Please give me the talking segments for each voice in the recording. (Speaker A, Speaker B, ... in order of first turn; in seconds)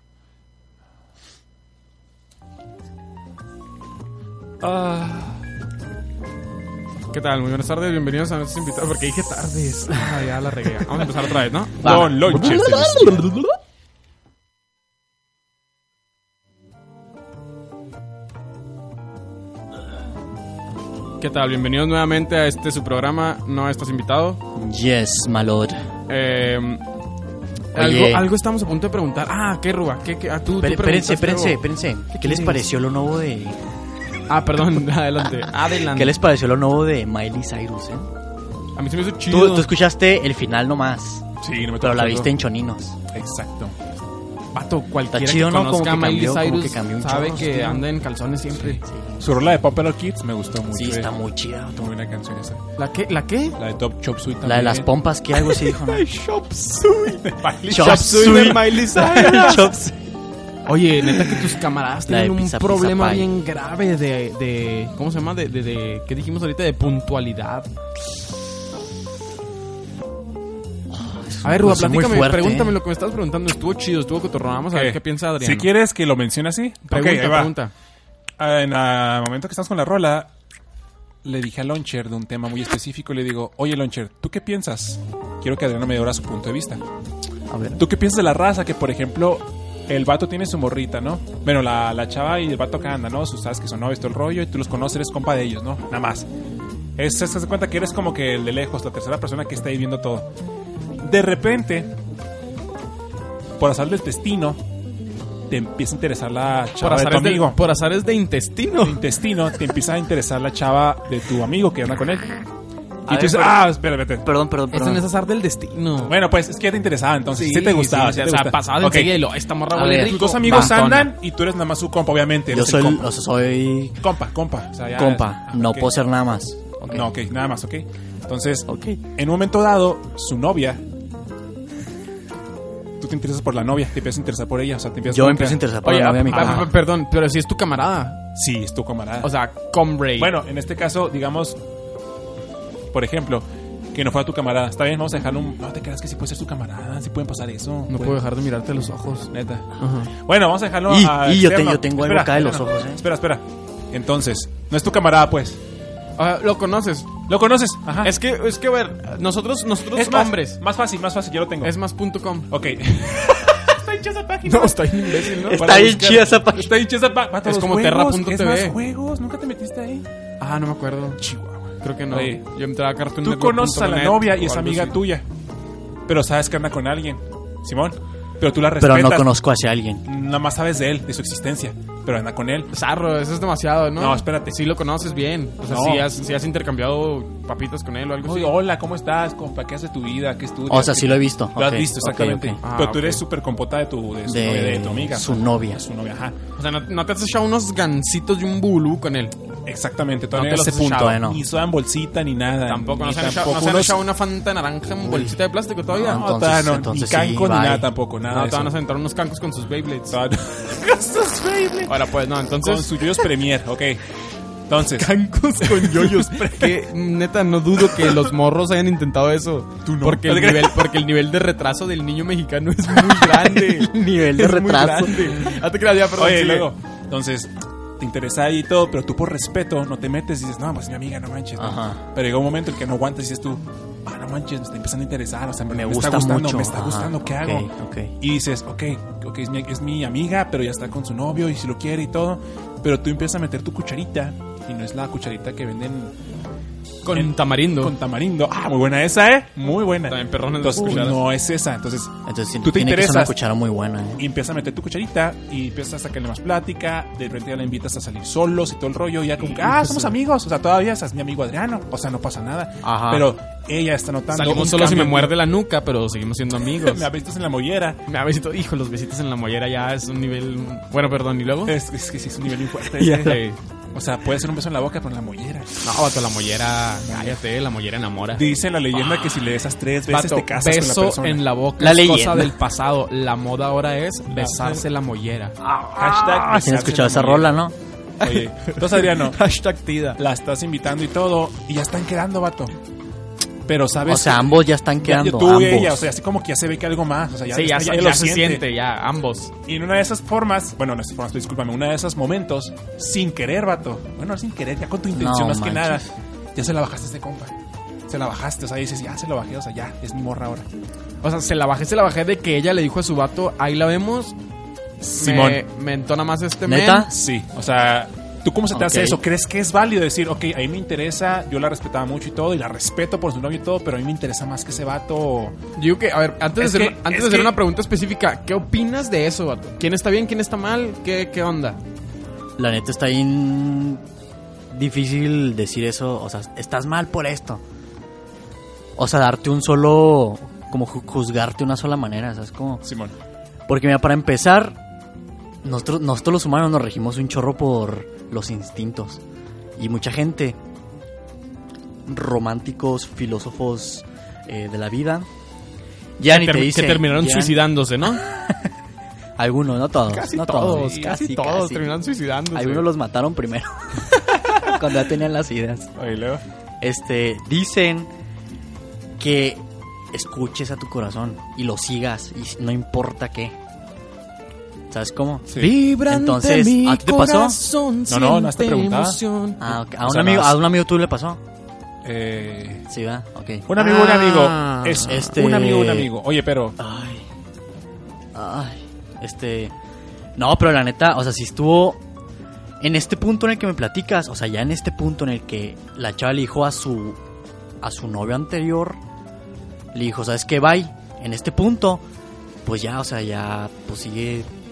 Speaker A: 4.6-5.4, 11.8-13.3, 41.4-42.3, 43.1-43.8, 49.2-51.1, 51.8-52.6, 53.6-54.9, 57.2-58.7, 59.2-59.5, 74.7-77.5, 78.4-80.3, 81.2-86.8, 87.8-96.3, 97.0-100.3, 101.0-101.9, 103.6-104.6, 105.5-107.6, 108.8-112.3, 113.1-114.3, 116.1-119.2, 119.9-123.1, 124.0-125.9, 126.9-130.8, 133.0-135.6, 136.3-136.7, 138.4-139.3, 140.2-141.6, 142.9-148.2, 149.3-155.6, 157.3-158.1, 159.9-161.7, 162.5-170.1, 171.2-172.4, 173.2-175.2, 176.1-179.3, 180.1-182.7, 184.0-184.6, 185.7-186.2, 188.2-196.3, 199.7-204.0, 206.0-208.7, 210.1-211.9, 212.6-214.0, 214.7-216.8, 217.9-218.3, 219.8-220.9, 226.2-237.7, 238.2-246.1, 247.1-253.3, 254.2-265.3, 266.7-268.0, 271.7-273.4, 273.9-275.8, 277.1-277.4, 278.3-281.4, 284.3-284.8, 285.9-287.6, 288.2-289.4, 290.2-292.7, 293.7-298.6, 299.7-307.5, 308.1-310.7, 315.1-315.6, 317.1-325.5, 326.6-327.6, 342.8-343.1, 366.0-366.4, 375.5-375.8, 378.1-379.2, 380.0-380.6, 382.0-382.9, 383.7-386.8
Speaker B: 7.1-13.0, 21.2-24.4, 26.1-26.8, 27.7-31.6, 32.1-32.6, 34.3-36.2, 38.8-39.7, 44.5-48.8, 52.8-53.6, 55.6-59.7, 60.7-67.7, 71.4-75.7, 76.9-77.7, 106.8-109.0, 114.7-116.2, 117.3-121.1, 135.8-138.2, 139.2-140.3, 147.9-150.1, 156.2-157.1, 158.0-160.6, 161.6-162.5, 164.4-165.7, 167.4-168.8, 170.4-171.2, 171.8-175.0, 182.7-188.6, 192.6-193.2, 196.6-199.3, 200.3-201.1, 202.7-206.2, 208.3-210.2, 211.9-213.3, 214.9-226.7, 247.0-247.9, 250.1-251.2, 264.3-267.1, 268.1-271.8, 273.0-273.6, 275.8-278.4, 279.0-279.3, 280.1-285.6, 288.2-290.2, 297.5-299.5, 311.2-314.4, 315.0-317.1, 325.8-331.8, 356.3-358.2, 360.1-362.9, 375.6-379.7, 383.7-385.4
Speaker C: 11.8-13.4, 24.6-25.8, 27.8-28.3, 30.6-33.6, 35.9-38.1, 39.3-41.3, 41.8-43.0, 45.1-47.9, 48.8-49.3, 50.7-51.9, 54.4-56.1, 57.7-60.1, 62.1-63.3, 70.9-72.8, 87.5-87.8, 113.1-113.7, 114.2-115.0, 119.7-120.7, 122.5-124.0, 125.0-127.1, 128.7-129.0, 135.1-136.7, 150.9-153.0, 165.5-166.8, 178.8-180.0, 190.7-192.6, 194.3-195.8, 200.9-201.4, 205.0-205.3, 205.9-207.9, 223.1-225.3, 231.6-232.0, 235.7-238.1, 252.3-254.2, 259.6-260.1, 262.8-263.3, 273.0-273.3, 281.8-282.6, 286.0-287.7, 294.1-296.1, 305.1-306.1, 316.6-317.1, 318.7-319.2, 332.6-334.0, 334.7-337.6, 339.0-342.8, 343.7-344.8, 345.6-349.2, 349.8-350.6, 352.1-355.3, 356.2-358.7, 359.4-361.9, 362.5-365.9, 366.8-368.1, 369.2-373.5, 374.9-377.6, 379.6-381.4, 382.9-383.6, 385.0-386.1, 386.8-387.2, 388.3-389.7, 390.4-392.0, 392.8-397.2, 397.8-399.0, 399.9-402.0, 402.6-404.5